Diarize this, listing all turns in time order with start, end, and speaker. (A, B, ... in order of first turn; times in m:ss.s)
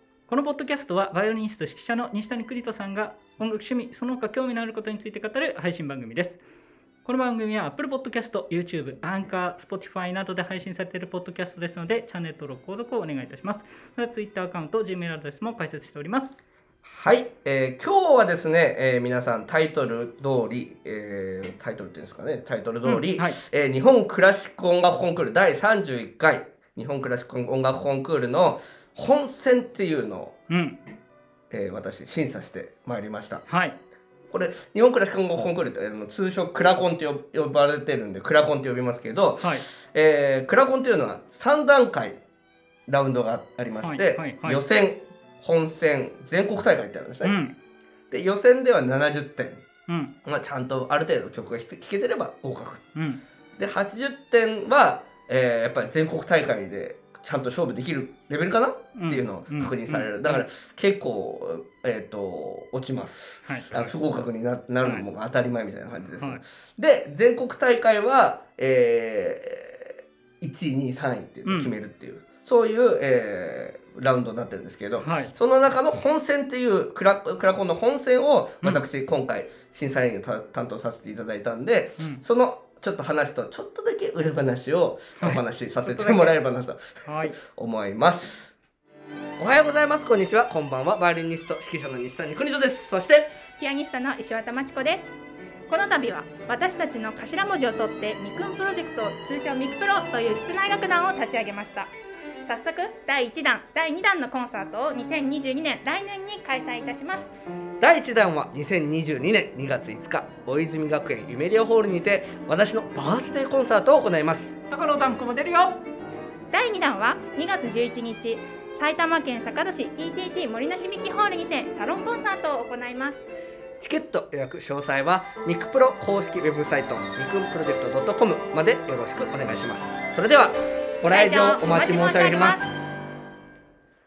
0:00.3-0:06.4 A
0:07.0-0:16.4 A
0:16.8-0:30.4 B
0:22.8-0:23.4 A
0:30.5-0:30.8 A
0:31.5-0:33.4 B
0:33.5-0:33.8 A
0:34.3-0:42.2 B
0:39.4-0:39.6 A
0:42.9-0:47.4 B
0:43.8-0:44.6 A
0:47.2-0:47.6 A
0:48.1-0:49.6 B
0:49.9-0:50.1 A
0:50.2-0:52.9 B
0:53.0-0:53.2 A
0:53.6-1:28.5 B
0:59.0-1:00.5 A
1:03.5-1:03.9 A
1:11.5-1:11.8 A
1:15.0-1:15.3 A
1:18.6-1:18.9 A
1:25.2-1:26.4 A
1:27.1-1:27.4 A
1:29.4-1:33.3 B
1:33.6-1:35.1 C
1:35.7-1:41.9 C
1:42.4-1:47.3 C
1:47.8-1:54.6 B
1:54.7-1:55.8 A
1:56.5-2:03.2 C
2:03.8-2:12.8 B
2:11.0-2:12.7 C